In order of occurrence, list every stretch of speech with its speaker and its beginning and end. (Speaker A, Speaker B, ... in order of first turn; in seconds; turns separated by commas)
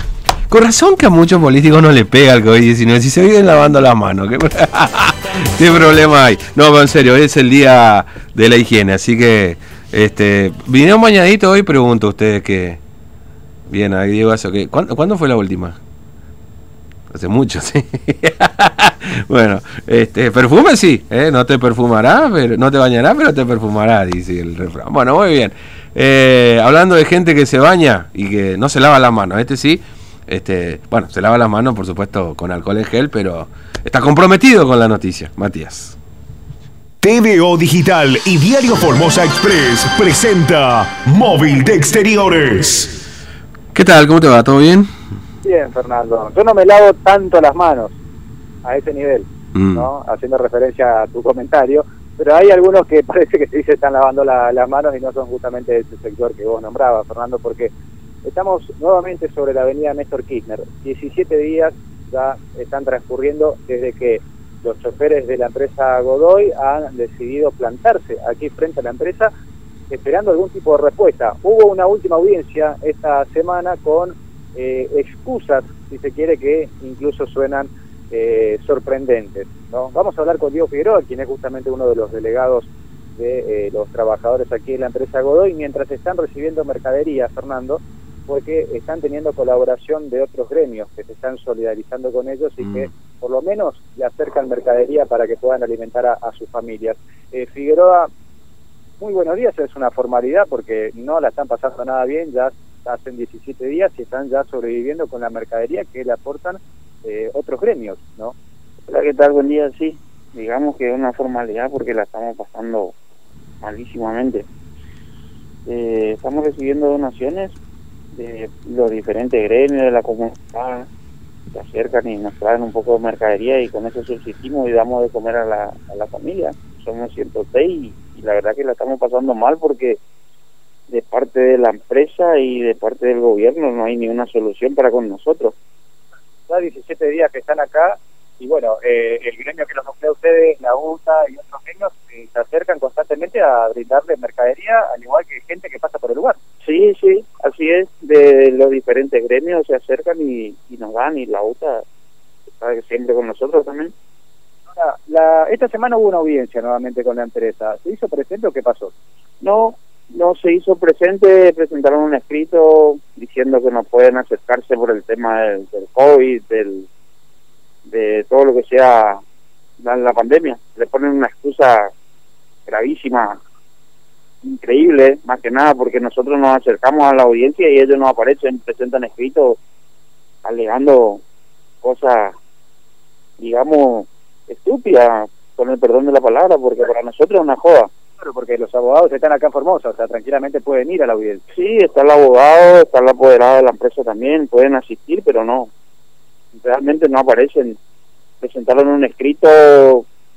Speaker A: 0.5-12.8, Speaker A: 13.7-15.8, Speaker A: 17.1-36.0, Speaker B: 37.0-42.9, Speaker A: 43.7-44.9, Speaker C: 45.4-48.0, Speaker C: 48.6-57.7, Speaker A: 49.5-49.9, Speaker C: 58.2-69.3, Speaker C: 69.9-98.1, Speaker A: 92.6-92.9, Speaker C: 99.0-108.3, Speaker D: 108.9-112.9, Speaker D: 113.6-114.5, Speaker D: 115.7-117.6, Speaker D: 118.1-120.9, Speaker D: 121.5-130.0, Speaker D: 130.9-135.6, Speaker C: 136.5-146.4, Speaker D: 146.6-151.8, Speaker D: 152.6-153.9, Speaker C: 154.7-158.9, Speaker D: 159.4-166.9, Speaker D: 167.9-169.2, Speaker D: 169.8-171.9, Speaker D: 172.7-173.4, Speaker D: 174.4-179.6, Speaker D: 180.4-181.2, Speaker D: 181.8-182.3, Speaker D: 183.4-187.9, Speaker C: 188.2-191.4, Speaker D: 191.5-195.7, Speaker D: 196.6-197.8, Speaker D: 198.4-200.1